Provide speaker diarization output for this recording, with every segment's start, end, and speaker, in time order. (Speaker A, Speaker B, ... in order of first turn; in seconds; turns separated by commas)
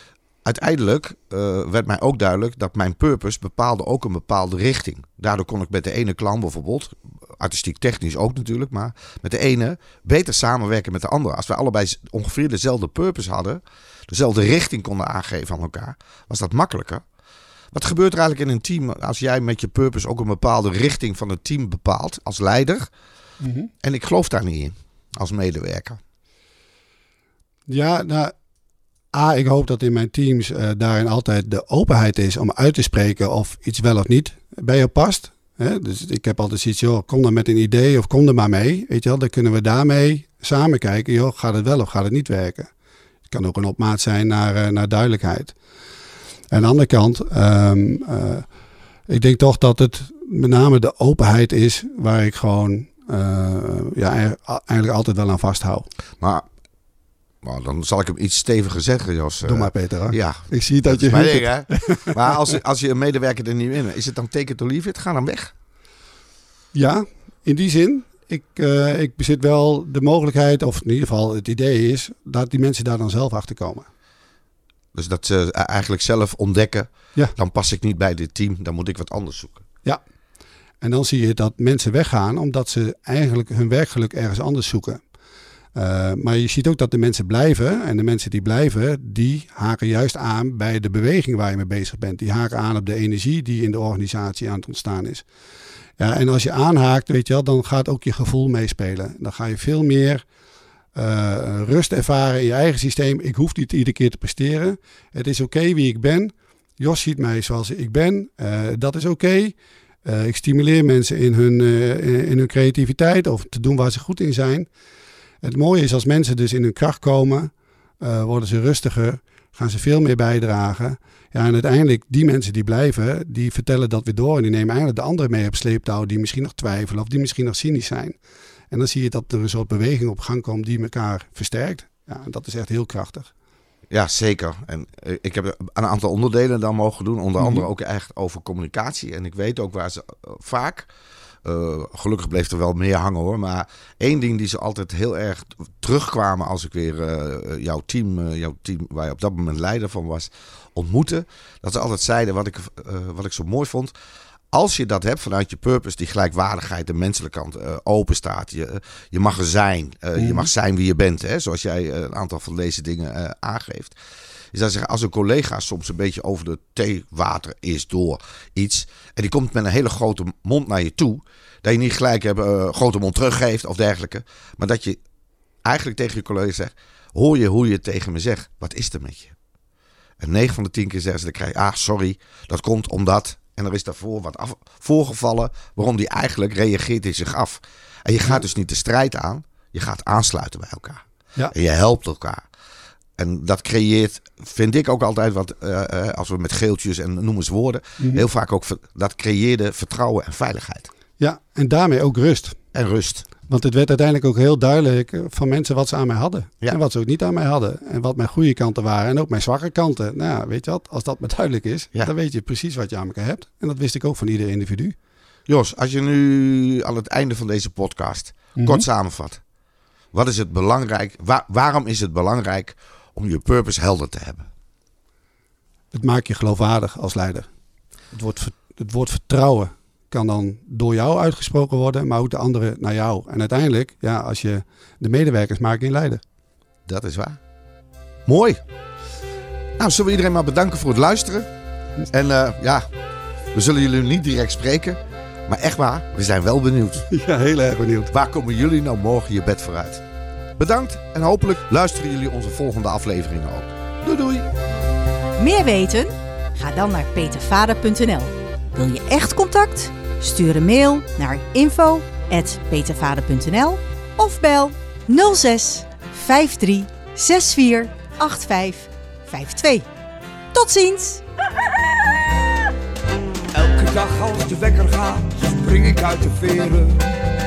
Speaker A: 0.5-17.0, Speaker A: 17.7-22.9, Speaker B: 23.4-23.7, Speaker A: 23.8-26.0, Speaker B: 27.7-28.3, Speaker B: 29.1-42.7, Speaker B: 43.3-45.5, Speaker B: 46.5-48.5, Speaker B: 49.1-55.9, Speaker A: 57.4-65.5, Speaker B: 59.5-62.1, Speaker B: 66.7-73.9, Speaker A: 74.9-79.6, Speaker B: 80.8-85.0, Speaker B: 85.8-95.2, Speaker B: 96.0-100.2, Speaker B: 101.0-114.7, Speaker B: 115.4-128.2, Speaker B: 128.7-133.3, Speaker A: 133.9-140.9, Speaker B: 137.4-137.7, Speaker A: 141.4-153.9, Speaker A: 154.5-163.9, Speaker B: 160.2-160.5, Speaker A: 164.5-175.0, Speaker A: 175.6-179.3, Speaker A: 180.2-192.4, Speaker A: 193.2-200.9, Speaker B: 198.0-198.2, Speaker B: 201.2-202.6, Speaker A: 202.7-203.3, Speaker B: 203.5-214.9, Speaker A: 215.5-219.4, Speaker B: 218.6-218.8, Speaker A: 220.1-224.5, Speaker B: 225.9-227.5, Speaker B: 228.1-236.2, Speaker A: 236.9-237.4, Speaker A: 238.3-238.6, Speaker A: 239.8-241.5, Speaker A: 242.1-242.9, Speaker A: 243.5-247.1, Speaker B: 247.1-248.1, Speaker A: 248.1-250.0, Speaker A: 250.6-254.5, Speaker C: 255.4-269.9, Speaker C: 270.5-271.2, Speaker D: 273.5-277.1